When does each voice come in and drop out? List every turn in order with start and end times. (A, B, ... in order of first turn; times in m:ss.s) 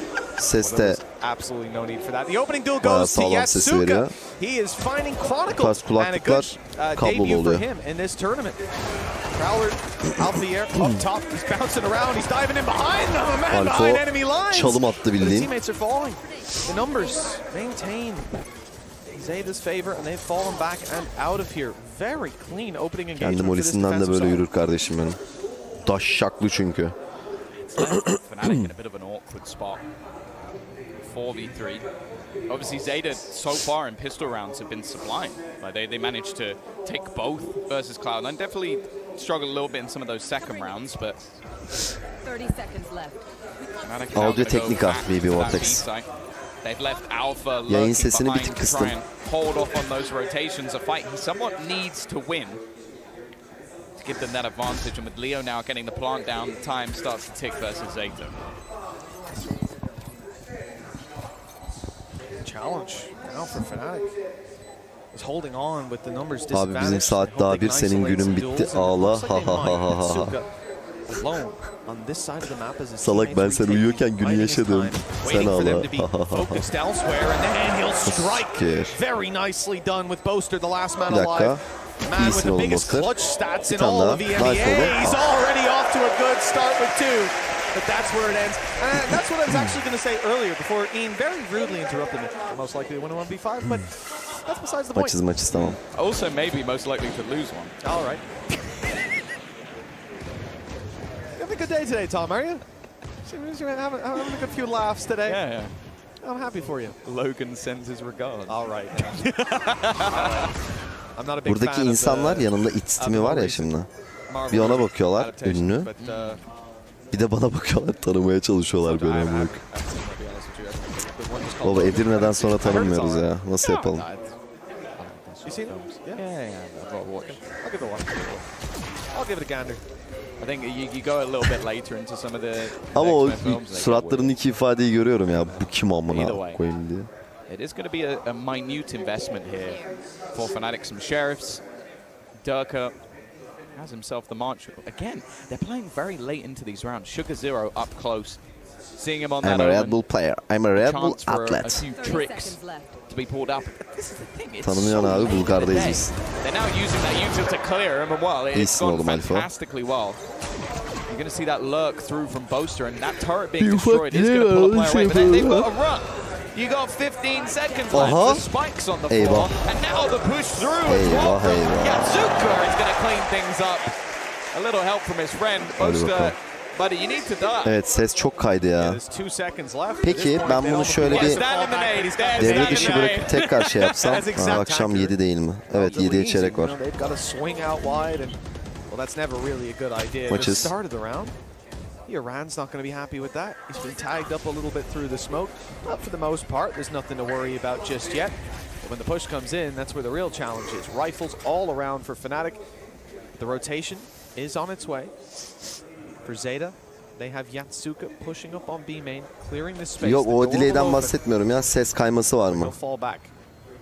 0:00.4-0:01.0 A
0:00.6-0:08.6 B
0:02.8-0:04.1 A
0:05.6-0:07.6 A
0:09.3-0:18.3 B
0:13.5-0:15.5 A
0:19.1-0:24.4 B
0:23.2-0:25.2 A
0:25.8-0:26.9 A
0:27.5-0:29.8 C
0:27.8-0:28.7 A
0:30.9-0:31.8 C
0:32.5-0:41.4 C
0:42.2-0:43.2 D
0:43.8-0:46.1 C
0:44.1-0:45.8 A
0:46.6-0:52.6 C
0:47.7-0:49.0 A
0:54.0-0:58.4 C
1:02.4-1:04.1 B
1:05.1-1:10.5 B
1:06.5-1:10.4 A
1:11.1-1:35.2 B
1:13.0-1:16.7 A
1:18.0-1:19.0 A
1:21.1-1:21.6 A
1:22.1-1:23.1 A
1:23.7-1:25.2 A
1:34.9-1:35.8 A
1:35.5-1:37.7 C
1:37.8-1:38.2 B
1:41.4-1:42.6 B
1:43.2-1:45.4 B
1:45.2-1:45.8 C
1:46.2-1:47.0 B
1:47.0-1:50.5 C
1:48.5-1:50.5 B
1:51.2-1:53.7 B
1:51.4-1:53.9 A
1:54.3-1:56.4 B
1:54.5-1:55.9 A
1:56.0-1:56.4 C
1:57.1-1:59.6 A
1:58.8-2:04.3 B
2:01.6-2:04.1 A
2:05.0-2:07.4 C
2:05.4-2:06.2 B
2:07.5-2:08.4 B
2:09.1-2:09.8 B
2:10.4-2:14.4 C
2:12.9-2:17.1 A
2:15.2-2:16.6 C
2:17.5-2:21.6 C
2:22.4-2:23.0 C
2:23.7-2:28.4 C
2:29.0-2:30.0 C
2:29.4-2:31.9 A
2:30.7-2:40.2 C
2:31.9-2:33.0 D
2:34.6-2:36.1 A
2:38.5-2:39.5 A
2:41.1-2:53.9 C
2:43.6-2:45.7 A
2:47.9-2:48.5 A
2:49.1-2:49.5 A
2:50.8-2:52.4 A
2:54.5-2:57.8 C
2:55.7-2:56.4 A
2:57.6-2:59.0 A
2:58.8-3:05.2 B
3:00.0-3:01.4 A
3:01.1-3:04.1 C
3:02.4-3:06.8 A
3:05.7-3:08.4 B
3:08.9-3:11.3 B
3:10.3-3:10.7 A
3:12.1-3:22.6 B
3:23.4-3:25.1 B
3:26.2-3:31.2 B
3:30.0-3:32.7 A
3:32.5-3:33.3 B